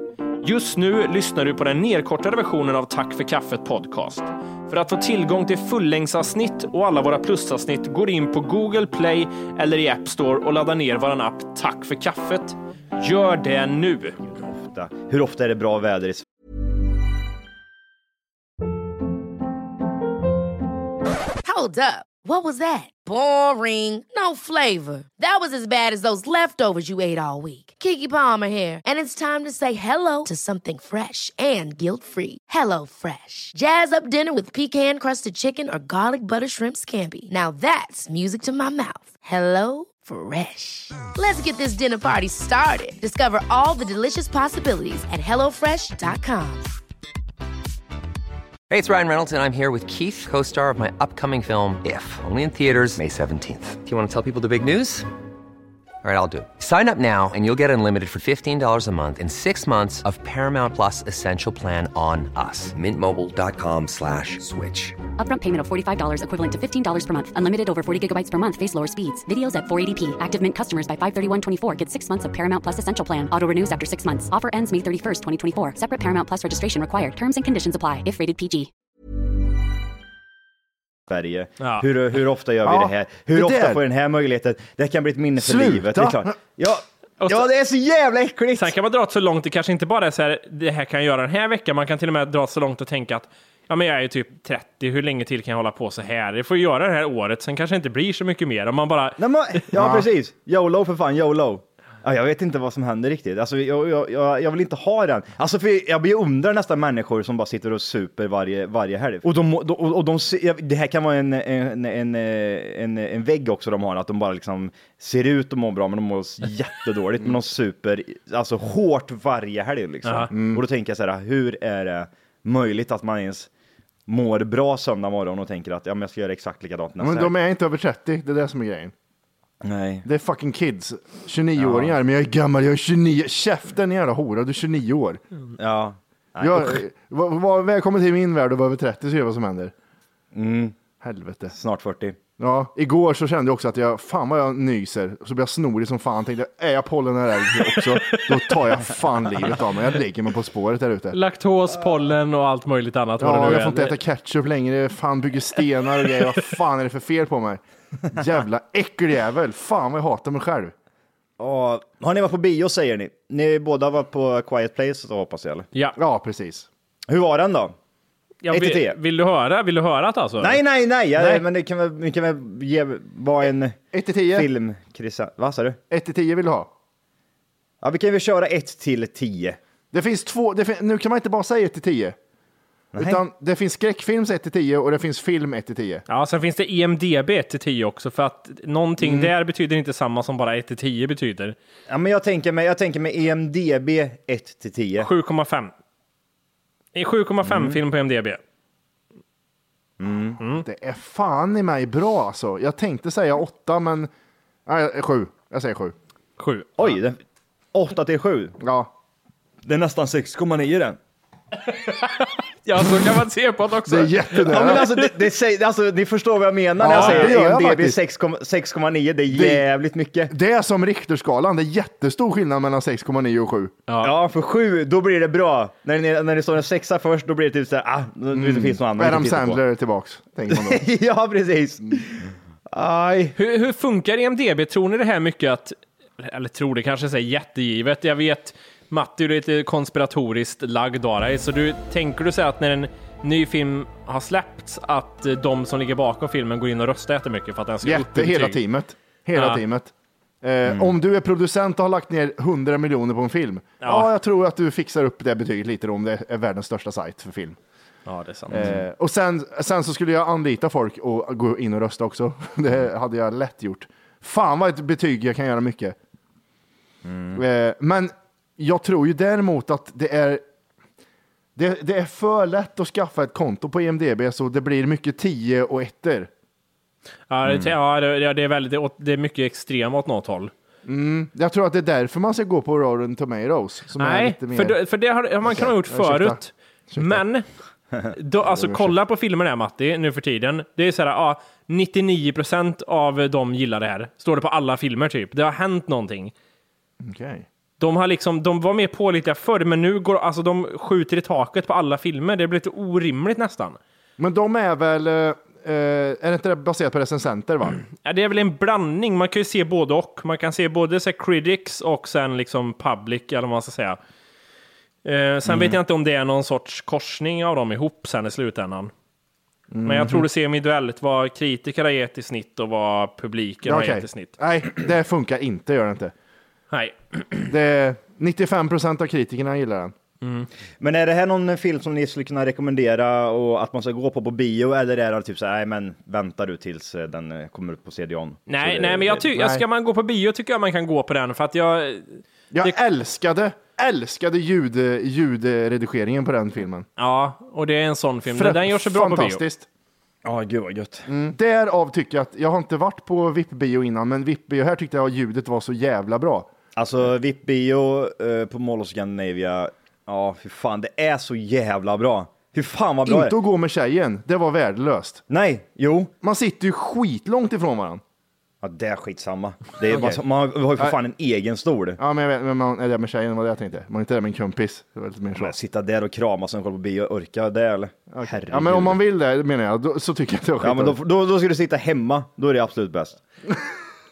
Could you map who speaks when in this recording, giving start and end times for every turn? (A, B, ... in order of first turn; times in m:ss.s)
0:00.4-0:14.2 A
0:14.2-0:16.2 B
0:21.4-0:46.7 C
0:48.7-0:55.0 D
0:56.0-1:05.0 D
1:05.2-1:18.7 E
1:21.1-1:28.7 B
1:22.6-1:23.8 F
1:25.4-1:26.3 F
1:28.6-1:39.2 A
1:39.2-2:03.5 B
1:39.7-1:40.0 F
2:00.0-2:00.3 A
2:00.3-2:00.6 F
2:04.1-2:07.3 B
2:07.0-2:08.9 F
2:09.6-2:10.0 B
2:10.0-2:15.2 F
2:11.6-2:11.9 B
2:15.6-2:16.8 B
2:16.4-2:19.7 F
2:20.3-2:20.7 B
2:21.0-2:21.5 F
2:21.5-2:22.2 B
2:22.4-2:31.2 F
2:27.8-2:28.6 A
2:31.1-2:34.0 A
2:33.2-2:40.7 F
2:41.4-2:45.7 B
2:46.0-2:46.7 F
2:47.1-2:47.7 B
2:48.4-2:50.6 A
2:48.5-2:49.0 B
2:50.4-2:55.8 B
2:51.2-2:51.4 A
2:53.9-2:54.5 F
2:55.9-2:56.7 F
2:57.8-2:59.6 B
2:59.9-3:02.2 F
3:02.9-3:03.2 B
3:03.0-3:06.0 F
3:06.1-3:11.6 A
3:09.0-3:09.3 F
3:11.9-3:15.1 B
3:15.0-3:15.7 A
3:16.9-3:18.4 A
3:17.4-3:17.8 B
3:20.0-3:20.4 B
3:20.6-3:24.1 F
3:24.6-3:25.9 F
3:26.4-3:27.0 A
3:26.8-3:27.2 B
3:27.7-3:28.6 B
3:28.6-3:28.9 F
3:29.6-3:31.0 B
3:31.7-3:35.1 A
3:33.8-3:34.8 F
3:34.4-3:40.3 B
3:36.8-3:38.0 F
3:36.9-3:37.3 A
3:39.3-3:39.6 F
3:40.3-3:43.7 F
3:44.0-3:49.6 B
3:48.3-3:50.8 F
3:50.5-3:53.4 B
3:53.4-4:08.6 A
4:07.8-4:17.6 F
4:09.4-4:09.6 A
4:13.8-4:14.1 A
4:18.0-4:18.6 A
4:18.5-4:26.0 F
4:18.5-4:18.8 B
4:27.1-4:27.4 B
4:27.3-4:30.4 F
4:31.6-4:36.3 F
4:37.3-4:40.5 A
4:37.5-4:37.7 B
4:40.8-4:44.8 F
4:44.0-4:47.4 A
4:45.4-4:47.2 F
4:48.1-4:56.3 A
4:48.5-4:48.9 F
4:57.0-4:57.4 F
4:57.8-5:03.8 A
5:04.2-5:07.8 F
5:08.0-5:14.0 A
5:15.0-5:18.9 A
5:15.5-5:15.8 B
5:19.7-5:20.2 F
5:19.8-5:24.3 A
5:23.6-5:26.1 F
5:26.7-5:27.4 A
5:27.5-5:29.9 F
5:30.2-5:30.5 A
5:30.8-5:39.3 B
5:38.5-5:42.8 A
5:39.4-5:39.6 F
5:42.5-5:46.8 F
5:47.0-5:49.4 A
5:48.3-5:49.7 F
5:50.2-5:51.1 B
5:51.1-5:56.5 F
5:56.7-6:03.4 B
6:03.0-6:05.2 F
6:05.3-6:06.1 B
6:06.2-6:08.0 F
6:08.6-6:12.0 B
6:09.9-6:10.2 F
6:12.0-6:15.5 F
6:15.4-6:19.0 B
6:18.1-6:21.0 F
6:20.6-6:23.2 B